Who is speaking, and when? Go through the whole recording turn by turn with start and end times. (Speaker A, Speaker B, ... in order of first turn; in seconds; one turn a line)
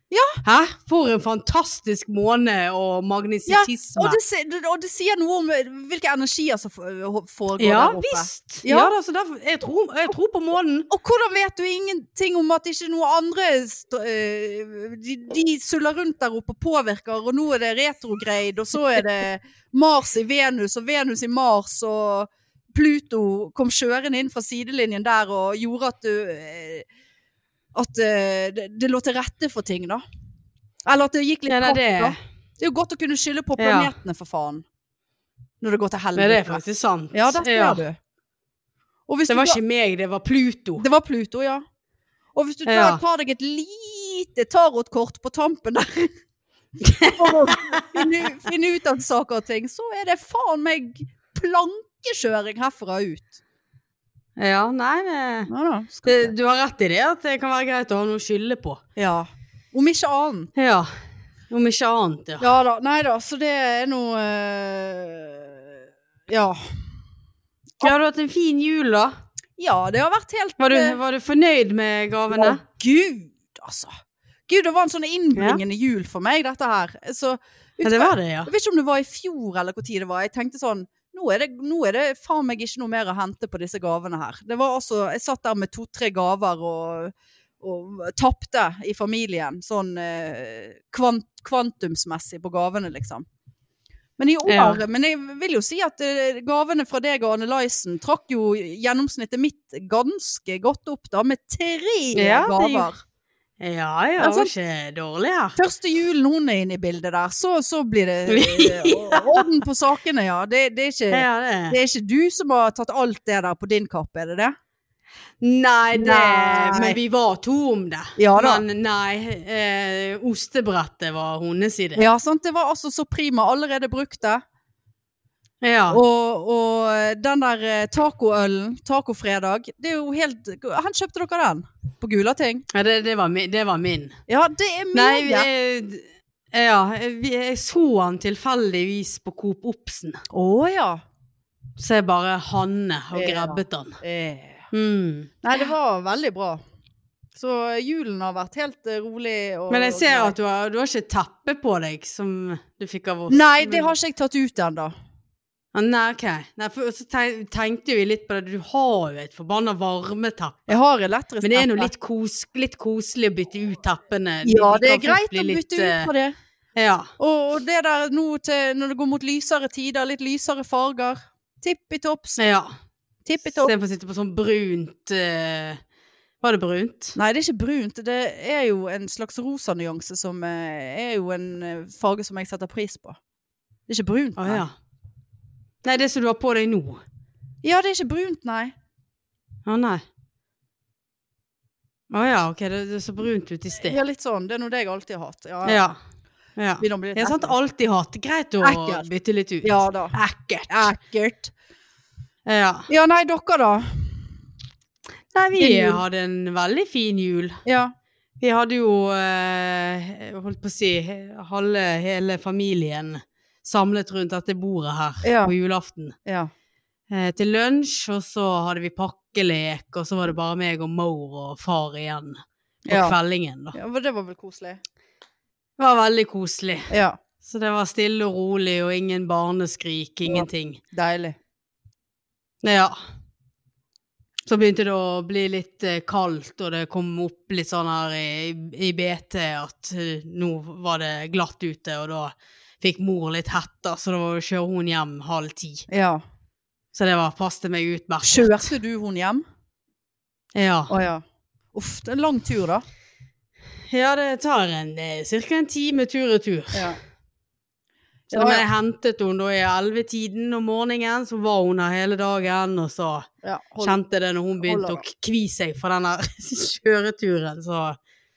Speaker A: 0.1-0.4
Speaker B: 0.4-4.2
Speaker A: 3.5-8.9
Speaker B: 7.6-10.9
Speaker A: 10.9-26.9
Speaker A: 27.7-30.0
Speaker A: 30.9-34.6
Speaker B: 31.5-32.2
Speaker B: 33.6-33.9
Speaker A: 35.6-36.6
Speaker B: 36.1-37.8
Speaker A: 37.1-38.0
Speaker A: 39.1-39.6
Speaker B: 39.3-40.8
Speaker A: 40.8-41.6
Speaker A: 42.4-46.1
Speaker B: 42.7-43.0
Speaker B: 46.8-48.1
Speaker A: 47.0-53.4
Speaker B: 54.4-55.5
Speaker A: 55.5-56.3
Speaker B: 56.0-58.8
Speaker A: 59.0-60.5
Speaker B: 60.6-60.9
Speaker B: 61.5-62.5
Speaker A: 62.4-65.7
Speaker A: 66.3-66.6
Speaker B: 67.8-69.1
Speaker A: 69.6-71.0
Speaker B: 70.6-72.6
Speaker A: 72.3-73.9
Speaker A: 74.5-93.2
Speaker B: 75.4-75.6
Speaker B: 77.8-78.5
Speaker A: 94.2-103.0
Speaker B: 94.5-94.8
Speaker B: 102.2-102.9
Speaker B: 103.6-105.5
Speaker A: 104.2-104.5
Speaker A: 105.6-114.5
Speaker B: 108.3-109.5
Speaker B: 111.1-111.8
Speaker B: 115.4-122.0
Speaker A: 115.9-117.0
Speaker A: 118.2-118.6
Speaker A: 122.0-124.4
Speaker B: 125.6-126.0
Speaker A: 125.9-132.7
Speaker B: 132.7-134.2
Speaker A: 134.3-135.5
Speaker B: 134.9-140.2
Speaker A: 140.3-141.0
Speaker B: 141.8-144.0
Speaker A: 143.1-144.7
Speaker B: 144.7-145.3
Speaker A: 145.4-146.6
Speaker A: 147.4-150.4
Speaker B: 149.7-153.9
Speaker A: 153.3-154.9
Speaker B: 155.7-160.7
Speaker A: 160.7-161.9
Speaker B: 161.4-166.1
Speaker A: 164.4-166.3
Speaker B: 166.8-167.1
Speaker A: 167.2-172.4
Speaker B: 172.4-172.7
Speaker A: 173.2-173.7
Speaker B: 173.5-175.8
Speaker B: 176.4-177.2
Speaker A: 177.2-183.2
Speaker A: 183.9-184.7
Speaker B: 184.4-184.7
Speaker B: 185.8-187.0
Speaker A: 187.6-188.7
Speaker B: 189.7-190.0
Speaker B: 192.1-194.0
Speaker A: 193.8-195.8
Speaker B: 195.7-196.0
Speaker B: 196.6-200.9
Speaker A: 196.8-197.6
Speaker A: 198.6-199.1
Speaker A: 199.6-200.2
Speaker A: 200.7-201.5
Speaker B: 202.5-202.9
Speaker A: 202.9-204.3
Speaker B: 205.3-207.6
Speaker A: 205.6-206.0
Speaker A: 207.7-207.9
Speaker B: 208.4-216.2
Speaker A: 215.2-215.5
Speaker A: 216.2-216.5
Speaker B: 217.1-223.8
Speaker A: 222.9-223.2
Speaker A: 223.7-224.8
Speaker B: 225.8-226.9
Speaker A: 226.9-227.2
Speaker B: 227.4-230.8
Speaker A: 230.3-231.4
Speaker B: 232.6-233.0
Speaker B: 234.5-245.9
Speaker A: 245.9-246.2
Speaker B: 246.9-248.7
Speaker A: 248.2-249.4
Speaker B: 250.6-250.9
Speaker A: 250.9-251.2
Speaker A: 251.7-252.8
Speaker B: 253.9-256.9
Speaker A: 256.7-257.0
Speaker A: 258.3-258.7
Speaker B: 258.3-263.3
Speaker A: 263.4-264.0
Speaker B: 263.8-268.0
Speaker A: 264.6-265.0